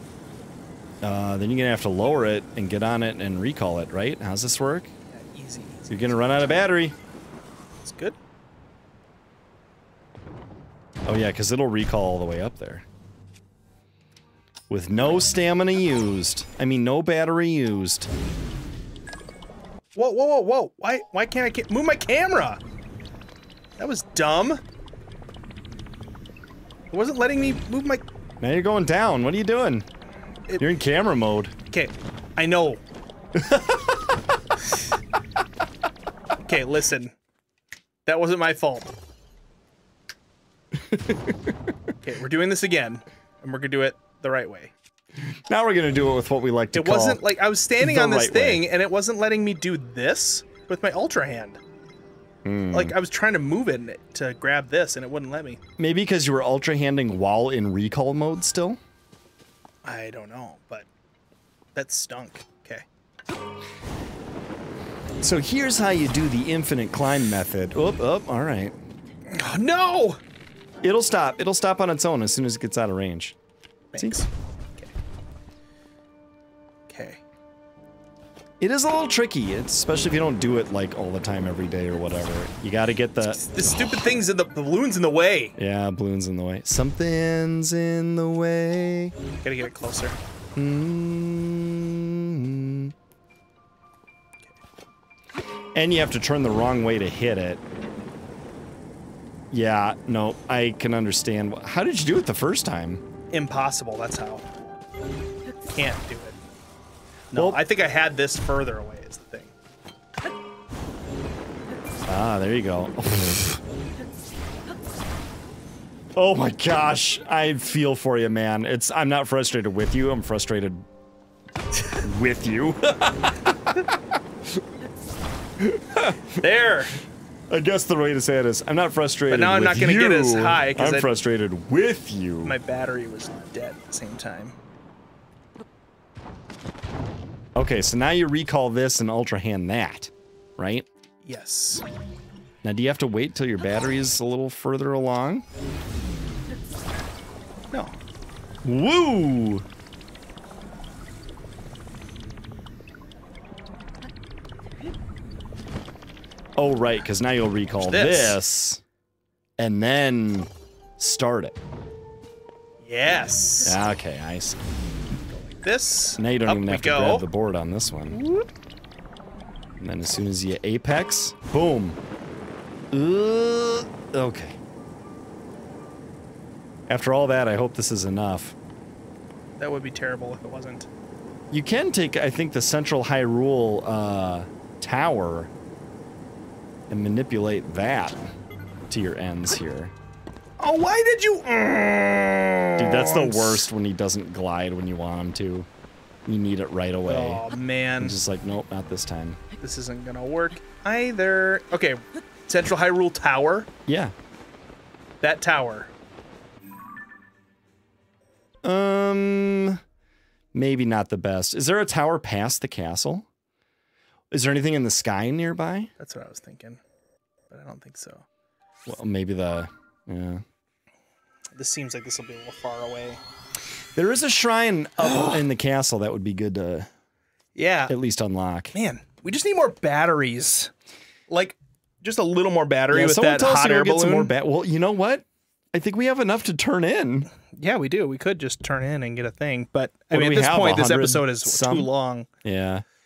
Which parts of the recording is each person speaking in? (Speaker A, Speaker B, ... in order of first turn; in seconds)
Speaker A: 1.0-4.9, 5.9-7.0, 11.1-12.8, 14.7-18.1, 28.4-29.9, 30.6-31.6, 33.4-33.9, 40.8-41.5, 45.5-47.2, 47.8-48.6, 52.5-52.9, 55.8-58.8, 65.2-68.8, 70.8-73.4, 74.0-74.2, 78.6-84.1, 85.6-89.2, 90.6-92.9, 95.8-97.6, 99.5-103.0, 107.3-107.6, 112.1-113.6, 116.2-120.8, 122.0-123.5, 125.6-126.4, 127.5-132.6, 137.6-140.9, 142.6-145.4, 148.6-149.7, 156.6-158.8, 159.6-161.6, 163.6-164.6, 166.2-168.2, 169.8-172.0, 172.9-174.6, 176.9-178.6, 181.5-185.5, 186.9-188.3, 188.9-189.9, 192.8-195.7, 196.3-197.4, 198.0-199.4, 203.9-204.1, 208.6-209.8, 210.5-213.3, 214.3-215.9, 218.9-220.4, 224.0-226.9, 227.9-228.7, 232.9-237.3, 240.1-241.9, 242.4-242.8
Speaker B: 5.1-6.3, 7.8-8.2, 19.9-22.6, 23.8-24.6, 26.9-28.0, 31.7-32.8, 36.5-37.1, 38.1-38.9, 42.0-44.7, 46.7-51.6, 52.7-55.6, 59.8-60.9, 61.8-62.9, 69.3-70.2, 73.9-74.9, 76.9-77.2, 83.3-85.5, 89.4-90.2, 103.3-104.5, 105.7-106.4, 107.3-109.5, 126.3-126.9, 129.3-131.1, 132.4-134.6, 141.2-141.9, 157.8-158.4, 162.8-163.8, 165.6-167.3, 168.1-168.5, 179.6-180.9, 190.6-193.7, 197.1-198.2, 199.6-203.7, 205.2-205.9, 216.0-216.8, 217.5-218.2, 221.6-223.2, 225.0-225.4, 227.6-227.9, 228.7-230.7, 231.3-234.3, 237.5-242.3